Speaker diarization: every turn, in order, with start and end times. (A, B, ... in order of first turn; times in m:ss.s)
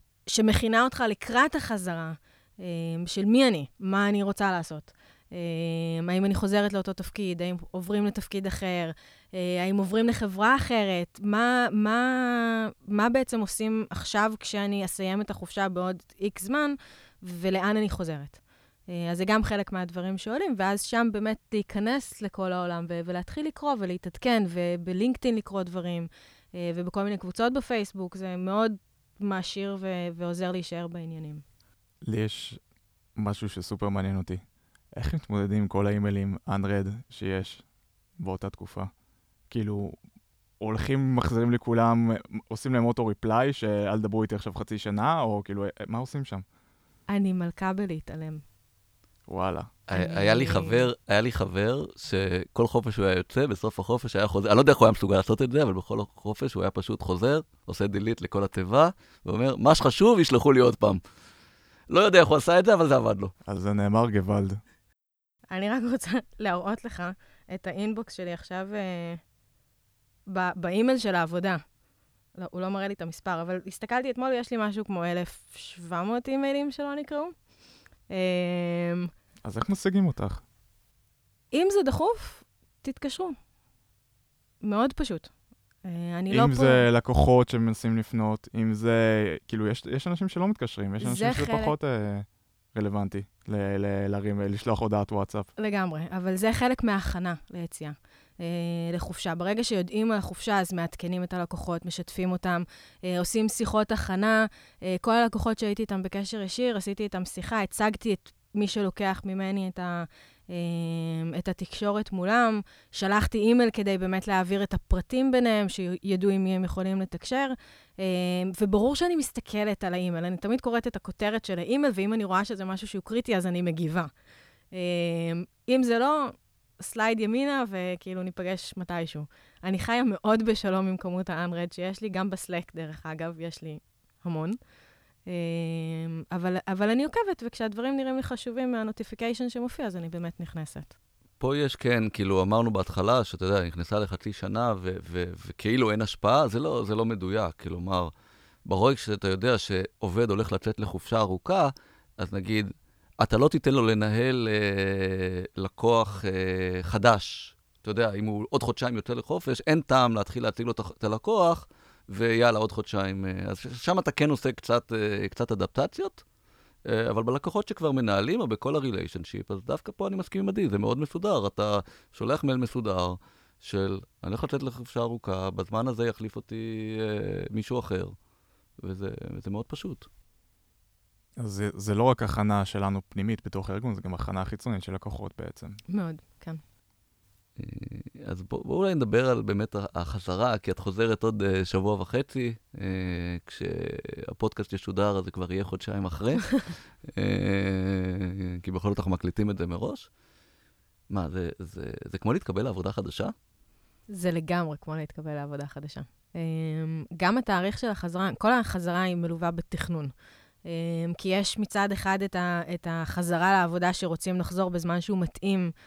0:00.3-0:31.4 A
0:32.0-0:32.6 B
0:33.2-0:34.4 B
0:35.0-0:37.6 B
0:38.2-0:38.9 B
0:39.5-0:40.0 B
0:40.6-0:46.4 B
0:47.1-0:48.4 A
0:49.3-0:49.7 B
0:49.9-1:01.0 C
0:49.9-0:50.8 A
1:01.9-1:03.3 C
1:03.5-1:04.6 B
1:05.5-1:09.2 A
1:10.3-1:11.6 A
1:12.4-1:17.3 A
1:18.1-1:19.1 A
1:19.4-1:20.4 B
1:21.5-1:23.4 A
1:24.6-1:25.3 A
1:25.8-1:26.8 A
1:26.3-1:35.5 B
1:31.0-1:31.7 A
1:35.6-2:04.1 A
2:04.7-2:14.6 A
2:15.3-2:20.9 A
2:21.4-2:28.1 C
2:28.6-2:46.2 C
2:46.9-2:58.2 C
2:58.8-3:00.1 C
3:01.4-3:05.8 B
3:05.9-3:06.6 A
3:07.6-3:20.1 C
3:21.1-3:23.3 C
3:24.1-3:30.1 A
3:30.7-3:35.7 A